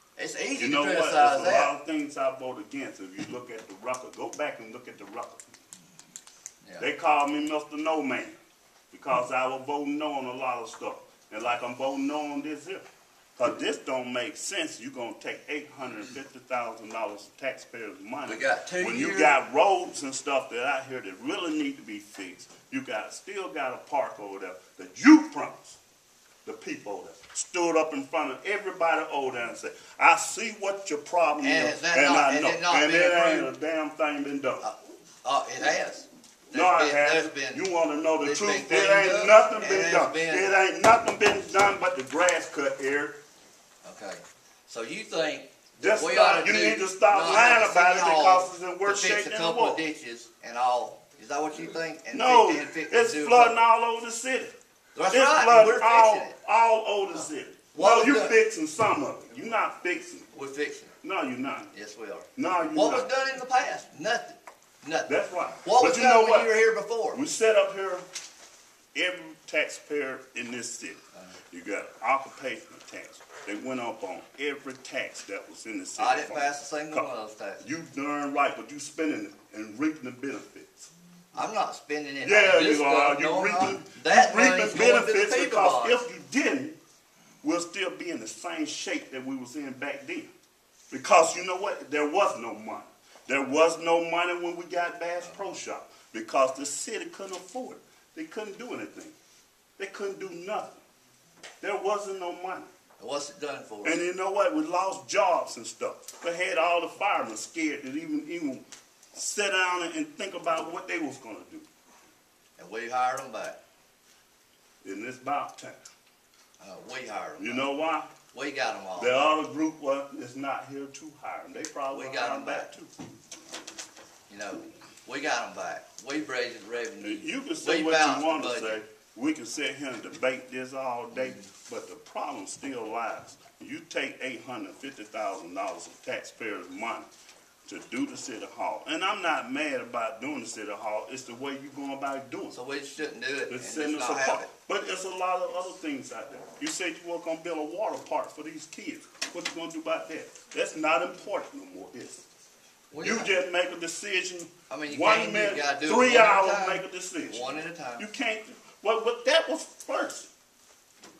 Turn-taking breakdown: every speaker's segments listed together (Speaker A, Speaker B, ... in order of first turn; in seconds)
Speaker A: 0.1-1.7, 18.2-19.4, 31.4-33.5, 34.6-37.6, 38.2-40.5, 43.8-53.6, 54.9-56.4, 57.7-58.4, 60.3-60.9, 61.7-67.2, 76.0-77.6, 81.3-86.0, 95.2-95.6, 103.0-104.0, 112.6-113.6, 116.6-117.7, 118.3-119.2, 121.9-122.7, 124.3-128.8, 142.5-144.5, 152.9-153.4, 154.7-158.1
Speaker B: 0.5-5.4, 6.8-8.3, 8.9-12.8, 13.4-25.8, 26.4-34.6, 36.5-43.2, 45.8-49.8, 52.1-54.5, 55.1-60.3, 61.0-61.7, 62.3-63.1, 65.1-66.6, 67.1-68.0, 68.9-77.1, 77.6-80.9, 82.2-86.8, 87.4-90.3, 90.9-99.2, 99.8-100.8, 101.6-102.7, 103.8-111.7, 114.8-115.8, 117.4-118.1, 119.0-122.9, 127.0-137.1, 137.7-142.6, 143.5-152.2, 153.0-160.3